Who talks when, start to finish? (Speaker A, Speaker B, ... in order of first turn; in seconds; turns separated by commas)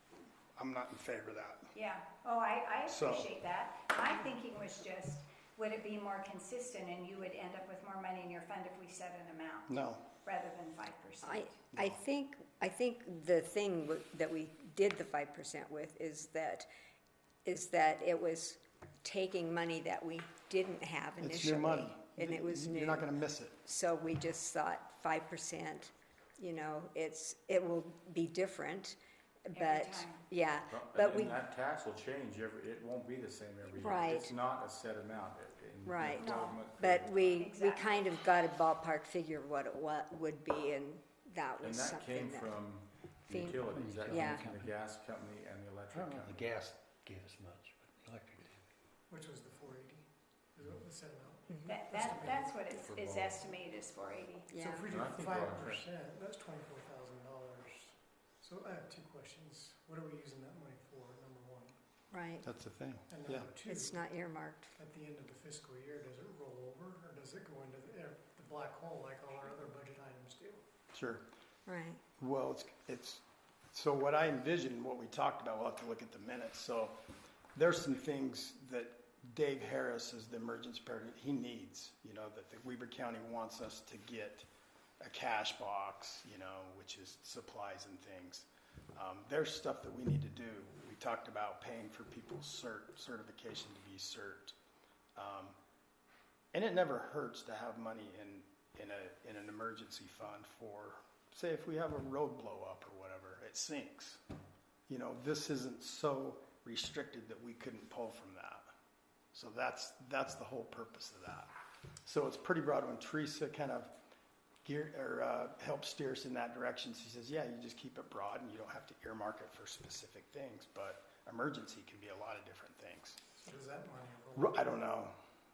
Speaker A: 0.6-1.7, Speaker B: 1.7-9.7, Speaker A: 2.9-3.3, Speaker A: 9.7-10.1, Speaker B: 10.2-11.6, Speaker C: 11.2-16.7, Speaker A: 11.7-12.0, Speaker C: 17.4-23.1, Speaker A: 21.2-23.6, Speaker C: 23.6-29.0, Speaker C: 29.5-31.4, Speaker B: 29.5-30.3, Speaker D: 30.7-37.4, Speaker C: 33.7-34.3, Speaker C: 35.8-42.6, Speaker B: 36.2-36.7, Speaker B: 37.2-38.0, Speaker D: 41.6-46.6, Speaker C: 43.3-44.5, Speaker E: 43.6-44.7, Speaker E: 45.9-48.7, Speaker F: 49.1-52.7, Speaker B: 51.6-54.5, Speaker D: 52.7-53.4, Speaker C: 54.5-54.9, Speaker F: 54.5-61.8, Speaker D: 54.9-55.8, Speaker C: 62.1-62.5, Speaker A: 62.4-63.5, Speaker F: 63.1-64.0, Speaker C: 63.7-64.8, Speaker F: 64.8-70.6, Speaker A: 70.9-71.2, Speaker C: 71.7-72.0, Speaker A: 72.2-77.0, Speaker A: 77.5-84.5, Speaker A: 85.0-94.5, Speaker A: 95.2-95.6, Speaker A: 96.5-104.2, Speaker A: 104.9-108.7, Speaker A: 109.3-111.5, Speaker A: 112.0-113.9, Speaker A: 114.7-123.2, Speaker F: 123.4-124.6, Speaker A: 124.3-125.2